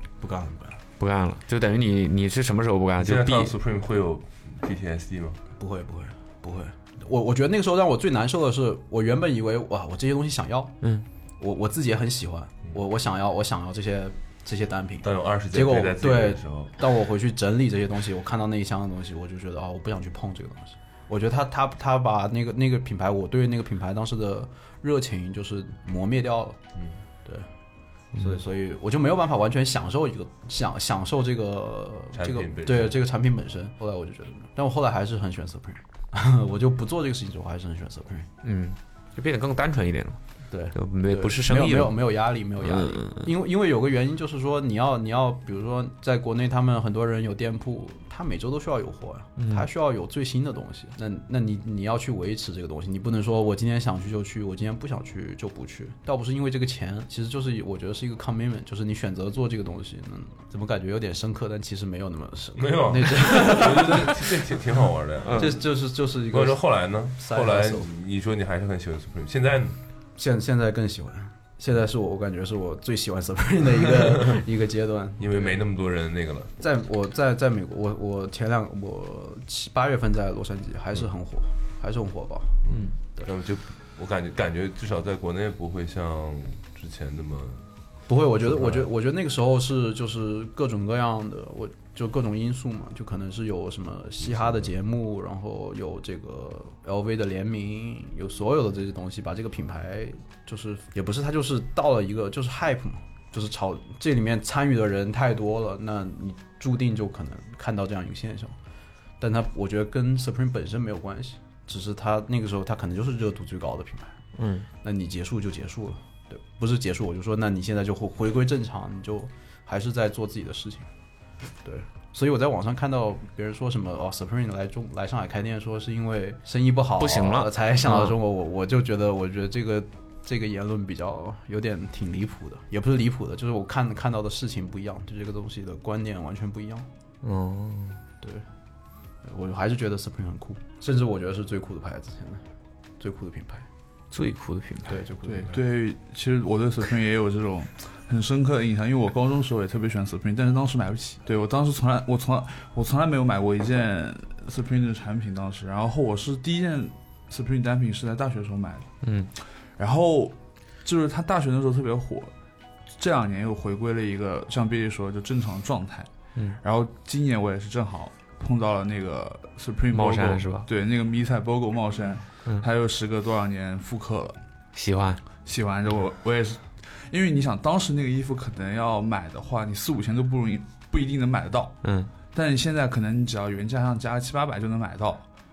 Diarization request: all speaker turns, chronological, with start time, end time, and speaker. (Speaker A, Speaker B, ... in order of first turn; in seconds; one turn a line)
Speaker A: 0.2-0.8
Speaker B: 1.0-3.5
Speaker C: 3.0-5.4
Speaker A: 5.6-10.7
Speaker A: 11.4-26.6
Speaker C: 15.0-16.7
Speaker A: 28.1-38.3
Speaker C: 32.1-33.0
Speaker B: 38.4-40.2
Speaker A: 40.5-64.6
Speaker B: 40.7-42.0
Speaker B: 42.6-43.3
Speaker B: 49.4-49.6
Speaker C: 62.6-65.6
Speaker B: 65.2-65.5
Speaker A: 65.3-67.9
Speaker C: 66.3-69.8
Speaker A: 70.2-75.6
Speaker C: 75.2-76.5
Speaker A: 76.6-82.6
Speaker C: 82.6-87.6
Speaker A: 88.1-108.5
Speaker C: 88.5-88.9
Speaker C: 94.2-94.7
Speaker A: 109.2-114.2
Speaker B: 114.4-114.7
Speaker A: 114.8-120.9
Speaker A: 121.6-136.9
Speaker B: 127.0-128.1
Speaker B: 137.2-138.0
Speaker A: 138.2-138.4
Speaker A: 139.2-142.4
Speaker A: 143.0-143.7
Speaker B: 144.1-145.0
Speaker A: 144.8-145.6
Speaker D: 145.2-158.9
Speaker B: 159.0-159.3
Speaker D: 159.6-162.3
Speaker D: 162.9-174.4
Speaker B: 169.9-170.7
Speaker B: 174.7-175.2
Speaker D: 175.4-181.8
Speaker B: 181.8-182.1
Speaker D: 182.3-185.2